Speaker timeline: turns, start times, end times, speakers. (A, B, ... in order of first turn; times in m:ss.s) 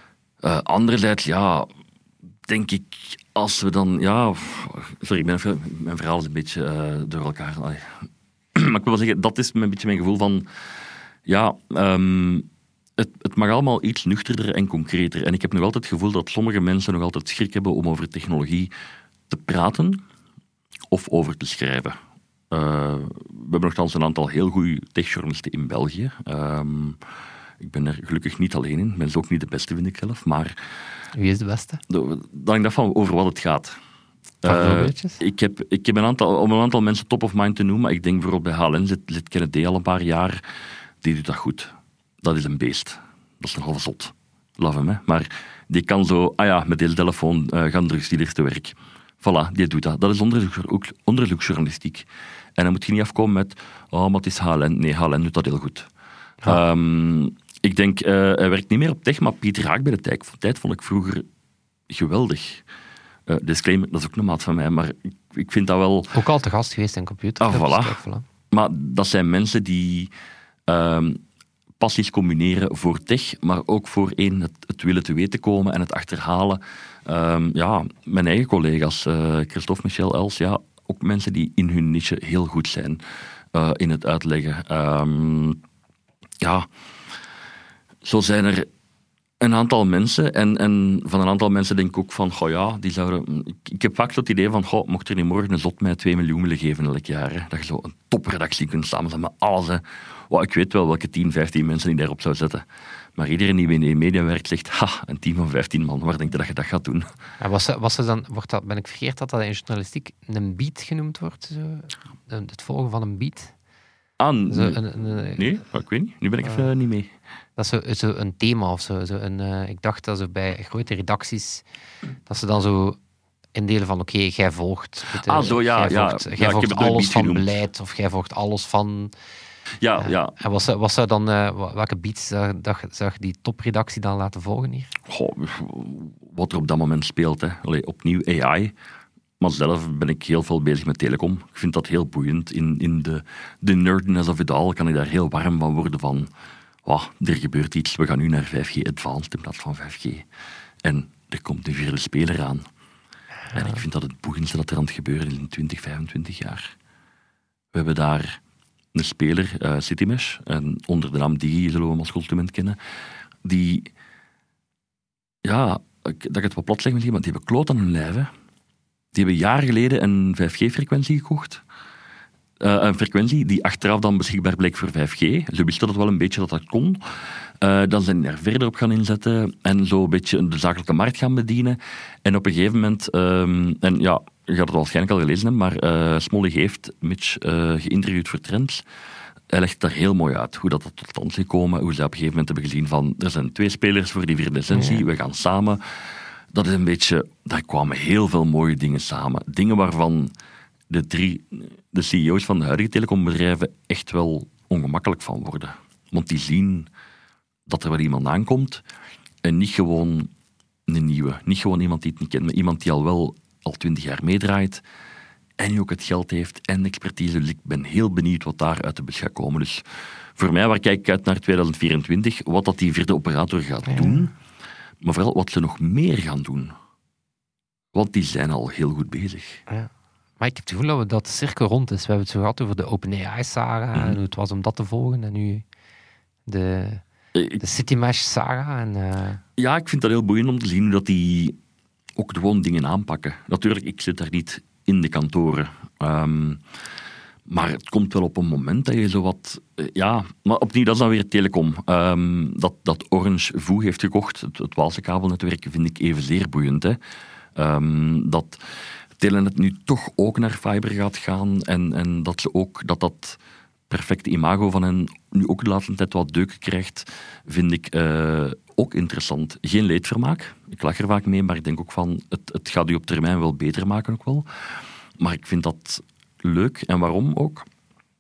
0:00.4-0:01.7 A
0:02.5-0:10.5 A
0:11.3-0:18.7 A
0:19.3-0:20.0 A
0:20.9-0:22.0 A
0:22.5-0:27.0 A
0:27.6-0:30.6 A
0:31.1-0:31.8 B
0:31.9-0:33.8 A
0:34.4-0:40.4 A
0:34.4-0:35.2 B
0:41.0-0:55.9 A
0:56.4-1:01.3 A
1:01.9-1:02.6 A
1:03.3-1:06.1 A
1:06.1-1:08.3 B
1:07.4-1:08.0 A
1:08.5-1:10.1 A
1:10.7-1:11.2 A
1:11.8-1:23.0 A
1:23.5-1:25.6 A
1:26.4-1:26.7 A
1:28.0-1:28.7 A
1:29.4-1:42.6 A
1:43.2-1:47.1 A
1:47.4-1:53.5 B
1:54.2-1:57.1 A
1:54.5-1:55.5 B
1:56.4-1:56.7 B
1:57.6-2:01.6 B
2:02.3-2:03.0 B
2:03.6-2:09.1 B
2:05.1-2:07.5 A
2:09.8-2:10.4 A
2:10.0-2:14.9 B
2:15.1-2:18.7 A
2:19.4-2:26.3 A
2:26.8-2:30.3 A
2:30.8-2:32.7 A
2:33.5-2:33.8 B
2:33.5-2:36.7 A
2:37.7-2:38.4 A
2:38.9-2:42.8 A
2:43.4-2:43.9 A
2:45.4-2:48.3 A
2:49.1-2:51.6 A
2:52.6-3:08.8 A
3:09.5-3:20.3 A
3:14.7-3:15.0 B
3:20.9-3:26.9 A
3:27.7-3:28.8 A
3:29.4-3:30.3 A
3:30.9-3:34.8 A
3:35.6-3:39.8 A
3:40.4-3:44.3 A
3:43.9-3:44.3 B
3:45.0-3:46.7 A
3:47.9-3:49.6 A
3:49.7-3:55.6 B
3:56.5-3:57.0 B
3:57.3-3:57.6 A
3:57.6-3:59.4 B
3:59.6-4:01.6 A
4:02.2-4:06.6 A
4:07.5-4:17.0 A
4:17.6-4:18.6 A
4:19.2-4:34.6 A
4:35.2-4:37.7 A